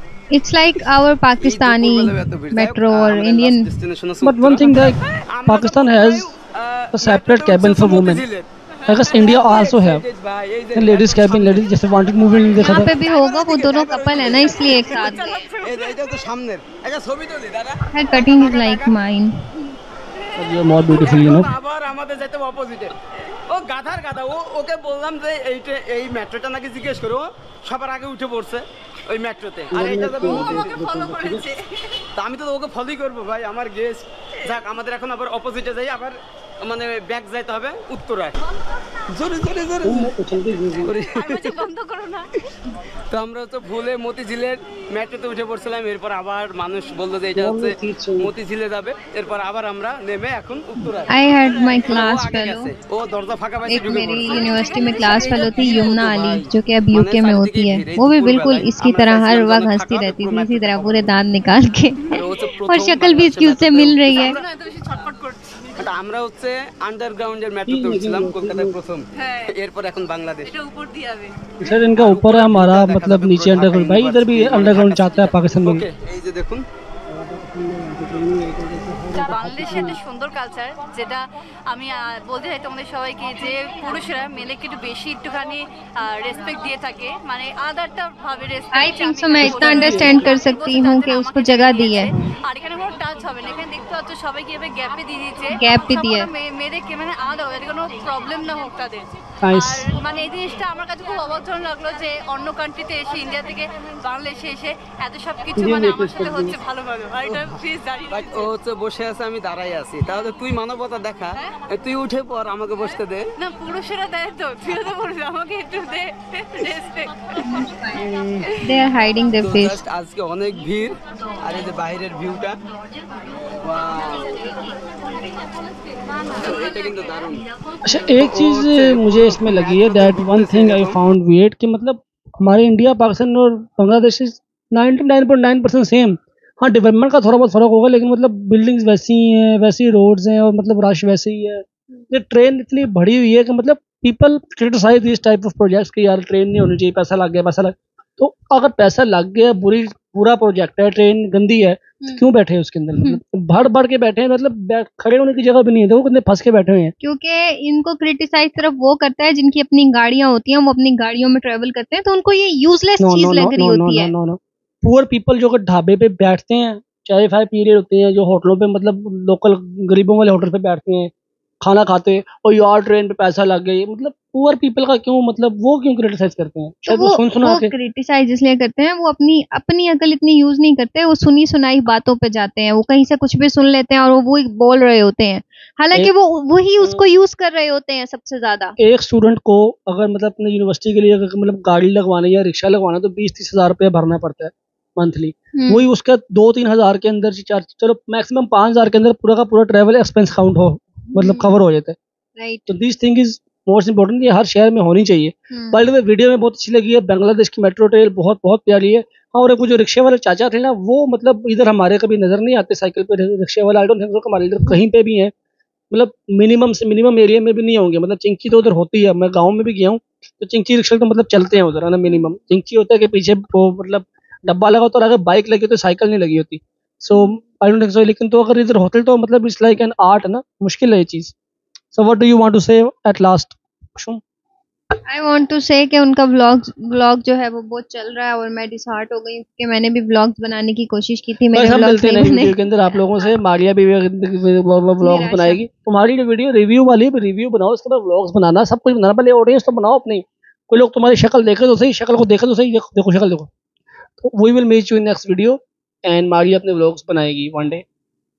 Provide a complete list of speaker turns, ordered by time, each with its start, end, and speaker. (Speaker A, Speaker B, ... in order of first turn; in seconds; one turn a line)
Speaker A: 0.3-3.7
Speaker B: 1.4-8.5
Speaker C: 4.2-6.3
Speaker C: 7.0-8.2
Speaker D: 8.8-9.5
Speaker C: 8.9-10.0
Speaker B: 9.2-11.8
Speaker C: 10.8-12.9
Speaker D: 12.6-13.3
Speaker A: 12.6-15.5
Speaker B: 12.7-18.9
Speaker D: 14.1-16.0
Speaker A: 17.9-19.3
Speaker D: 20.2-21.4
Speaker C: 20.4-21.5
Speaker B: 20.9-22.9
Speaker B: 23.5-30.7
Speaker C: 29.7-31.5
Speaker D: 30.0-32.0
Speaker B: 32.1-38.4
Speaker D: 38.5-39.0
Speaker B: 39.1-40.1
Speaker C: 39.8-40.9
Speaker B: 40.8-41.6
Speaker D: 41.0-42.3
Speaker B: 43.1-61.1
Speaker C: 47.4-48.3
Speaker A: 50.8-52.7
Speaker A: 53.7-64.4
Speaker D: 54.2-55.8
Speaker B: 62.1-64.4
Speaker D: 64.1-65.8
Speaker B: 65.8-70.5
Speaker C: 67.7-68.8
Speaker D: 69.2-69.5
Speaker D: 70.5-71.3
Speaker C: 71.6-75.9
Speaker B: 71.9-76.7
Speaker C: 77.1-80.0
Speaker D: 79.1-108.5
Speaker A: 88.7-92.1
Speaker C: 89.4-90.3
Speaker A: 95.6-96.3
Speaker C: 99.4-99.9
Speaker C: 105.6-106.6
Speaker B: 107.2-107.6
Speaker B: 108.1-113.2
Speaker D: 113.4-117.4
Speaker A: 117.4-118.0
Speaker B: 117.9-118.5
Speaker D: 118.4-118.8
Speaker A: 118.6-119.8
Speaker B: 119.4-122.6
Speaker B: 123.6-124.4
Speaker D: 124.4-124.7
Speaker D: 126.3-127.1
Speaker B: 126.4-127.4
Speaker C: 127.8-156.9
Speaker B: 128.2-131.0
Speaker A: 157.0-164.1
Speaker C: 163.0-171.1
Speaker C: 171.6-177.7
Speaker A: 176.9-188.8
Speaker C: 186.8-187.1
Speaker C: 188.8-202.0
Speaker A: 195.6-195.8
Speaker A: 201.2-201.6
Speaker A: 202.4-202.7
Speaker C: 202.7-215.3
Speaker A: 205.5-205.8
Speaker C: 215.9-231.3
Speaker A: 222.1-222.3
Speaker C: 231.9-234.2
Speaker A: 235.1-242.6
Speaker C: 241.5-253.5
Speaker A: 245.0-245.6
Speaker C: 254.2-257.8